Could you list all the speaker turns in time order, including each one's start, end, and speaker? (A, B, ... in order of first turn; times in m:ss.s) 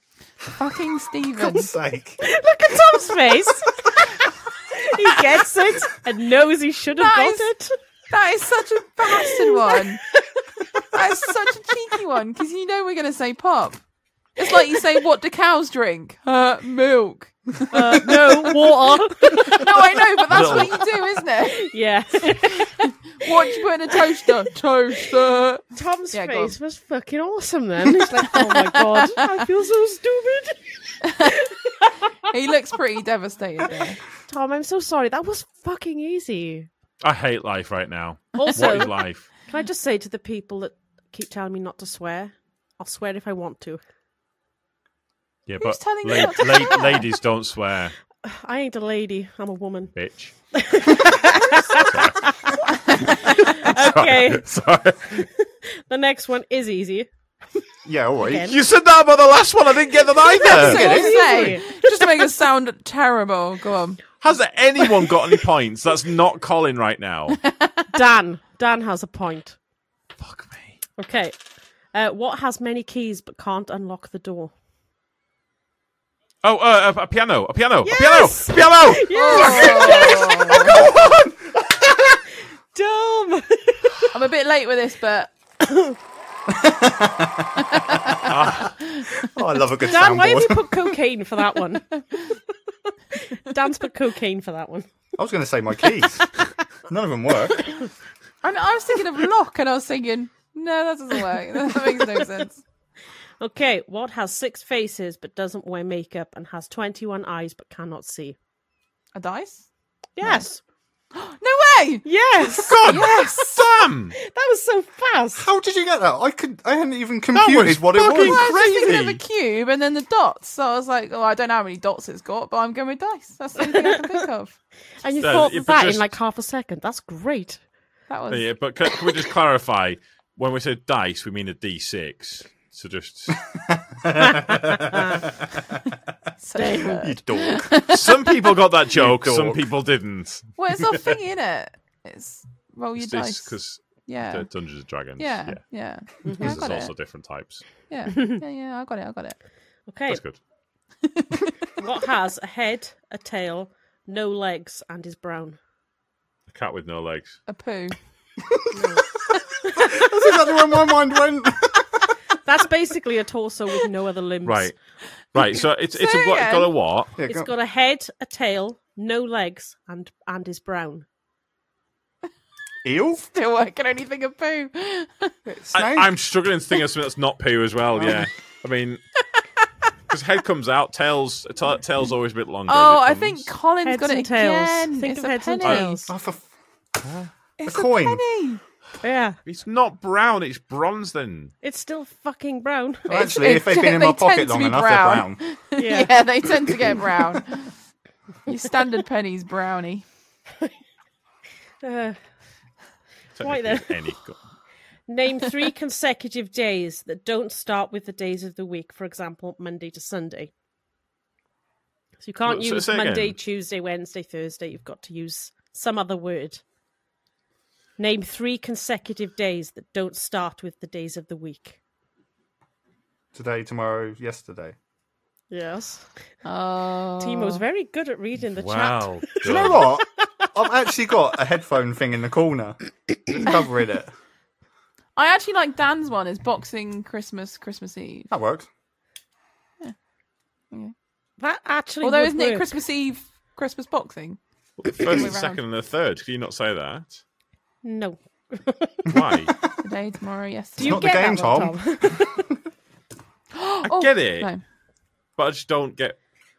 0:00.6-0:01.7 A
0:01.4-0:02.2 B
0:02.2-0:03.8 C
0:04.8-0:07.7 C
0:07.0-0:07.5 A
0:08.1-0:10.0 A
0:09.1-0:09.5 C
0:10.9-0:13.8 A
0:14.4-0:26.5 A
0:17.7-0:20.9 C
0:20.3-0:20.7 D
0:20.3-0:20.7 B
0:21.5-0:24.3 C
0:25.7-0:32.1 C
0:27.9-0:29.3 A
0:31.1-0:31.3 A
0:32.3-0:34.0 A
0:33.7-0:36.7 C
0:37.0-0:39.3 D
0:38.3-0:43.8 C
0:45.5-0:48.0 D
0:45.6-0:47.1 A
0:46.6-0:46.9 C
0:48.2-0:49.9 C
0:49.9-0:50.4 D
0:50.5-0:52.5 C
0:51.5-0:52.4 D
0:52.7-0:53.3 A
0:53.1-0:55.2 D
0:53.2-0:54.4 C
0:55.2-0:57.1 C
0:57.8-0:58.5 B
0:58.2-0:58.6 C
0:58.4-1:01.0 D
1:00.4-1:02.0 C
1:00.4-1:01.5 B
1:00.5-1:04.0 A
1:04.2-1:07.4 D
1:07.4-1:07.8 A
1:07.9-1:09.6 C
1:10.2-1:10.8 D
1:11.0-1:11.3 C
1:11.9-1:14.5 C
1:16.4-1:21.2 D
1:17.8-1:20.8 C
1:19.1-1:20.7 A
1:21.0-1:21.3 B
1:22.7-1:24.0 C
1:24.1-1:25.3 A
1:25.6-1:26.0 C
1:26.5-1:27.6 B
1:27.7-1:28.1 A
1:28.3-1:28.8 D
1:28.8-1:29.2 A
1:29.3-1:30.7 B
1:29.9-1:31.9 C
1:33.4-1:34.9 C
1:35.2-1:36.2 B
1:36.9-1:37.6 B
1:38.4-1:42.6 A
1:41.7-1:42.4 C
1:43.4-1:48.4 C
1:49.1-1:49.6 A
1:50.2-1:50.6 C
1:51.1-1:52.0 A
1:52.0-1:53.5 C
1:52.6-1:54.2 D
1:52.8-1:53.6 A
1:54.2-1:55.4 C
1:55.4-1:58.4 B
1:57.3-1:59.2 D
1:58.1-2:04.6 A
2:03.6-2:04.2 C
2:05.0-2:07.6 C
2:05.2-2:06.1 D
2:08.1-2:08.5 A
2:08.3-2:13.4 D
2:13.7-2:15.0 B
2:16.4-2:18.2 A
2:16.6-2:17.0 C
2:16.8-2:17.8 B
2:17.9-2:21.1 D
2:18.9-2:19.6 B
2:20.6-2:24.5 A
2:23.0-2:27.8 D
2:25.2-2:26.9 A
2:26.2-2:26.6 C
2:27.9-2:29.4 A
2:28.1-2:28.4 C
2:29.9-2:30.2 C
2:30.1-2:30.4 D
2:31.1-2:31.4 A
2:31.8-2:35.6 C
2:36.5-2:37.4 D
2:37.4-2:38.0 A
2:38.7-2:39.0 C
2:39.6-2:40.0 C
2:39.9-2:42.0 B
2:42.4-2:44.7 C
2:44.4-2:44.8 D
2:45.3-2:47.2 D
2:45.9-2:46.7 A
2:47.2-2:47.5 B
2:47.2-2:51.0 C
2:52.8-2:53.2 B
2:53.1-2:55.3 A
2:55.5-2:56.1 B
2:55.7-2:59.0 D
2:58.0-2:58.3 B
3:00.1-3:03.5 D
3:02.6-3:06.0 A
3:03.8-3:06.1 C
3:05.6-3:06.0 D
3:06.1-3:06.4 B
3:07.0-3:07.3 D
3:07.6-3:08.6 A
3:07.6-3:08.2 B
3:09.0-3:09.4 C
3:09.4-3:11.5 D
3:11.6-3:13.3 C
3:13.1-3:15.4 B
3:13.1-3:17.7 A
3:15.8-3:16.1 C
3:18.5-3:20.0 A
3:21.8-3:22.2 C
3:23.4-3:24.4 D
3:23.4-3:24.0 C
3:25.1-3:30.5 C
3:32.2-3:36.6 C
3:32.4-3:33.4 D
3:38.0-3:41.8 C
3:43.3-3:44.7 B
3:45.5-3:46.3 C
3:46.4-3:47.6 A
3:47.2-3:50.0 C
3:48.4-3:49.9 D
3:49.4-3:52.8 B
3:53.4-3:54.1 B
3:55.2-3:58.3 A
3:58.3-3:58.7 B
4:01.4-4:02.8 C
4:02.0-4:04.4 A
4:04.8-4:07.2 D
4:05.1-4:05.6 A
4:07.8-4:09.1 C
4:09.1-4:09.5 D
4:09.8-4:11.3 A
4:10.8-4:12.4 C
4:10.8-4:12.3 B
4:13.5-4:14.6 A
4:13.8-4:14.5 D
4:15.4-4:16.2 D